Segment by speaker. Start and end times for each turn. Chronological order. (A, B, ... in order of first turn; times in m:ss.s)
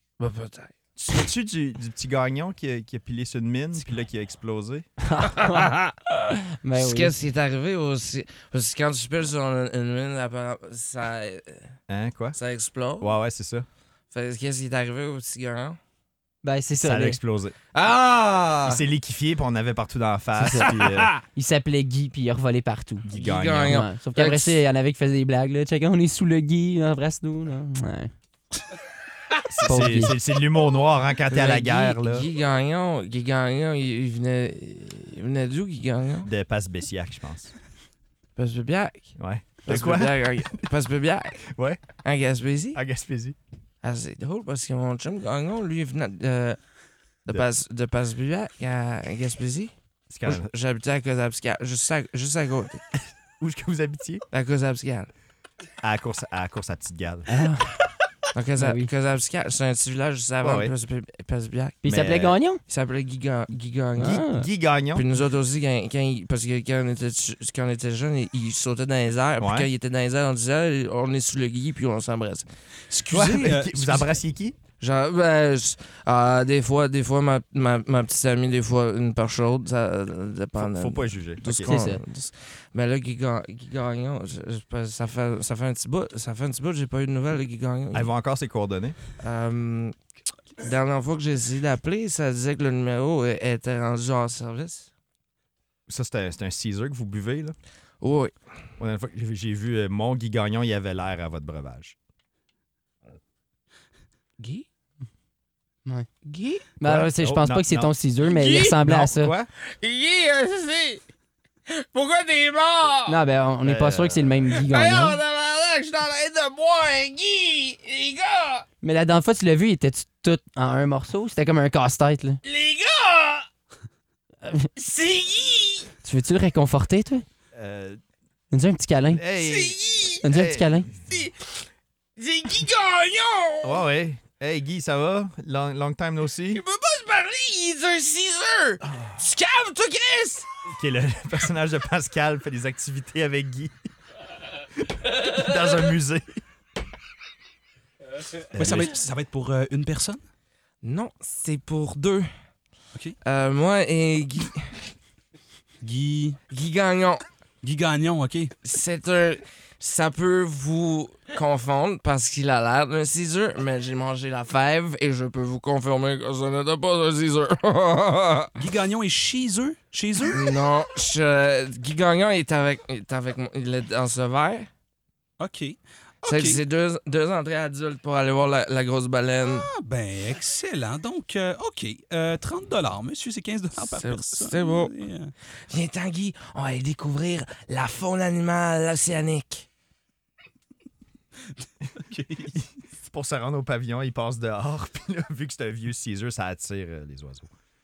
0:00.2-0:00.7 A
0:01.0-0:04.9 B
0:05.0-0:05.7 C
0:05.4-0:05.9 A
0:06.6-0:07.1 C
0:06.8-0:11.7 A
0:11.9-0:12.4 B
0:12.3-0:13.1 A
0:13.0-0:13.6 B
0:14.1-0:15.8 A
0:16.4-0:17.2 C
0:16.8-0:17.6 B
0:17.7-0:18.8 A
0:18.6-0:21.1 B
0:20.4-0:23.1 C
0:20.7-0:21.1 A
0:23.0-0:23.9 B
0:23.1-0:24.6 A
0:23.6-0:28.1 C
0:29.6-0:30.0 A
0:29.6-0:32.2 B
0:29.6-0:30.1 C
0:31.3-0:36.3 A
0:36.2-0:37.5 B
0:38.4-0:39.1 A
0:39.2-0:40.4 B
0:39.6-0:42.8 A
0:41.5-0:41.8 B
0:42.7-0:43.4 B
0:43.8-0:46.6 A
0:47.2-0:49.7 A
0:50.1-0:50.5 B
0:50.2-0:52.8 A
0:53.4-0:54.2 B
0:54.3-0:55.1 A
0:55.8-0:57.3 B
0:57.3-0:57.7 C
0:58.3-1:01.8 A
0:58.6-0:58.9 C
1:00.4-1:00.7 B
1:01.8-1:02.6 C
1:01.9-1:02.4 B
1:02.7-1:04.2 A
1:04.0-1:04.5 C
1:04.0-1:05.0 B
1:04.9-1:12.4 A
1:09.4-1:09.7 B
1:12.9-1:14.1 D
1:13.1-1:14.6 B
1:14.8-1:28.0 A
1:20.6-1:21.7 B
1:21.6-1:22.0 C
1:27.9-1:29.0 B
1:29.2-1:29.9 A
1:30.6-1:34.9 A
1:35.9-1:37.5 B
1:38.0-1:38.3 A
1:38.8-1:42.0 B
1:44.4-1:44.6 A
1:46.2-1:46.6 A
1:46.8-1:49.3 C
1:46.8-1:47.9 B
1:48.2-1:48.8 A
1:48.8-1:49.5 B
1:49.7-1:51.0 A
1:51.7-1:53.2 A
1:53.1-1:55.2 C
1:53.6-1:54.4 B
1:54.5-1:58.6 A
1:58.8-2:02.4 C
2:02.4-2:03.4 A
2:04.8-2:05.9 A
2:06.0-2:07.2 C
2:07.5-2:08.0 B
2:08.5-2:09.2 C
2:09.1-2:10.9 B
2:09.4-2:10.2 A
2:10.2-2:10.9 C
2:11.1-2:11.5 A
2:12.2-2:13.8 A
2:13.6-2:16.6 B
2:16.5-2:20.4 A
2:20.7-2:23.9 B
2:24.9-2:26.3 B
2:28.5-2:28.9 B
2:28.5-2:30.2 D
2:30.8-2:32.3 A
2:33.2-2:34.8 A
2:35.8-2:36.4 D
2:36.5-2:37.2 A
2:37.6-2:38.5 D
2:38.6-2:48.5 A
2:48.6-2:50.4 D
2:50.3-2:54.7 A
2:55.4-2:56.6 D
2:56.2-2:59.7 A
2:59.4-3:05.3 D
3:03.8-3:04.9 A
3:05.7-3:09.6 A
3:12.0-3:12.6 D
3:13.0-3:17.5 B